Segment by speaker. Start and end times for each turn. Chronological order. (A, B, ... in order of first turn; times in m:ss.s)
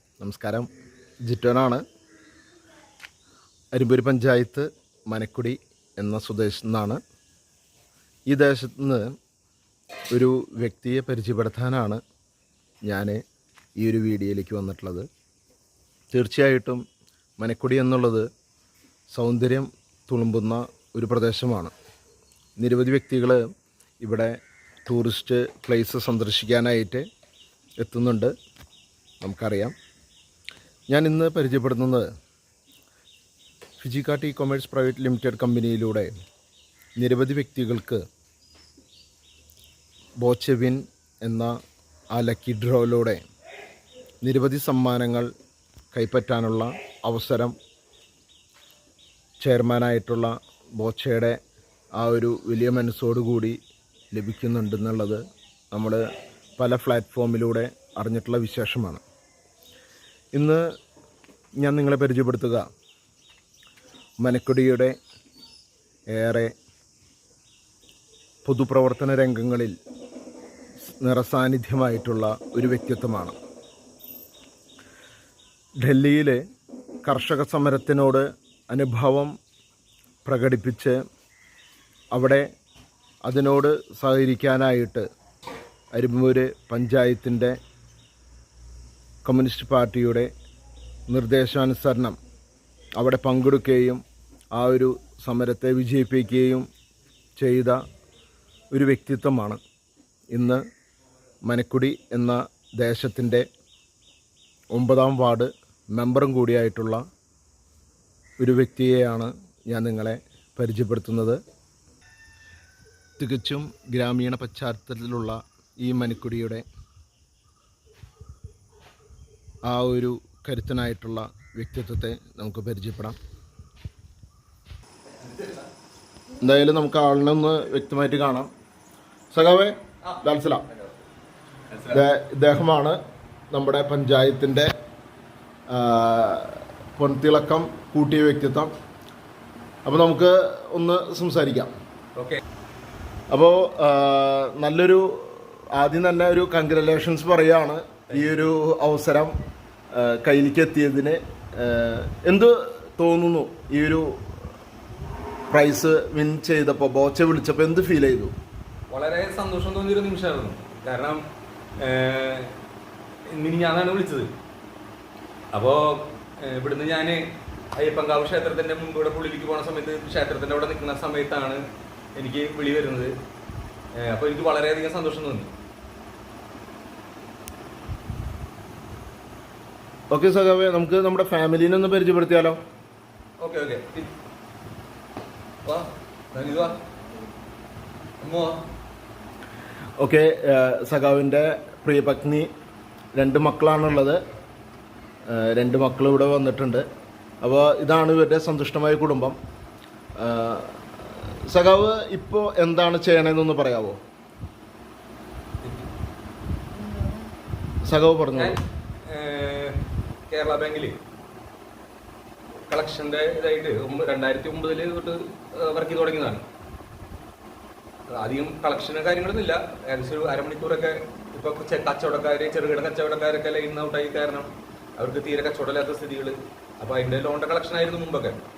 0:00.2-0:00.7 A
0:01.2-0:01.8 A
0:03.7-0:07.0 A
0:08.3-0:09.1 A
0:10.1-0:12.0 A
0:12.8-0:13.2 A
0:13.8-0:15.1 A
0:16.1-0:16.8 A
0:17.4-0:18.3 A
0:19.1-0:21.7 A
0:22.6-0:23.4 A
0:24.0-0:27.0 A
0:27.8-0:28.3 A
0:29.2-0:29.7 A
0:30.9-0:32.1 A
0:33.8-0:36.1 A
0:37.0-0:38.0 A
0:40.2-0:41.6 A
0:42.1-0:43.2 A
0:44.2-0:45.3 A
0:45.9-0:47.5 A
0:49.4-0:51.4 A
0:52.0-0:53.6 A
0:54.1-0:56.0 A
0:56.6-0:59.0 A
1:00.3-1:00.6 A
1:01.6-1:02.7 A
1:04.2-1:05.0 A
1:06.1-1:06.5 A
1:08.4-1:09.8 A
1:10.9-1:13.3 A
1:15.8-1:16.4 A
1:17.0-1:19.3 A
1:20.2-1:21.0 A
1:22.1-1:22.5 A
1:23.2-1:25.0 A
1:25.9-1:27.6 A
1:29.2-1:30.3 A
1:31.1-1:32.2 A
1:33.0-1:34.0 A
1:34.5-1:36.7 A
1:37.4-1:37.8 A
1:38.7-1:39.6 A
1:40.3-1:40.6 A
1:41.4-1:43.5 A
1:44.7-1:47.0 A
1:48.4-1:51.4 A
1:53.2-1:56.6 A
1:59.6-2:03.2 A
2:05.2-2:05.6 B
2:06.4-2:08.5 A
2:09.3-2:10.6 A
2:11.9-2:13.0 A
2:13.5-2:14.7 A
2:15.7-2:18.7 A
2:19.8-2:21.7 A
2:22.2-2:22.4 B
2:23.3-2:29.3 A
2:29.9-2:34.2 A
2:35.5-2:38.3 A
2:38.9-2:41.2 B
2:41.8-2:42.5 B
2:43.3-2:44.3 B
2:45.5-2:47.2 B
2:47.8-2:51.6 B
2:52.2-2:53.1 B
2:54.0-2:55.5 B
3:00.1-3:02.6 A
3:03.4-3:04.1 B
3:05.6-3:06.8 B
3:08.2-3:08.6 B
3:10.0-3:12.5 A
3:13.1-3:14.2 A
3:15.3-3:16.8 A
3:17.4-3:19.4 A
3:20.2-3:24.0 A
3:25.6-3:25.9 B
3:27.8-3:28.6 A
3:28.3-3:29.8 B
3:30.3-3:30.9 B
3:32.7-3:36.4 B
3:38.1-3:48.4 B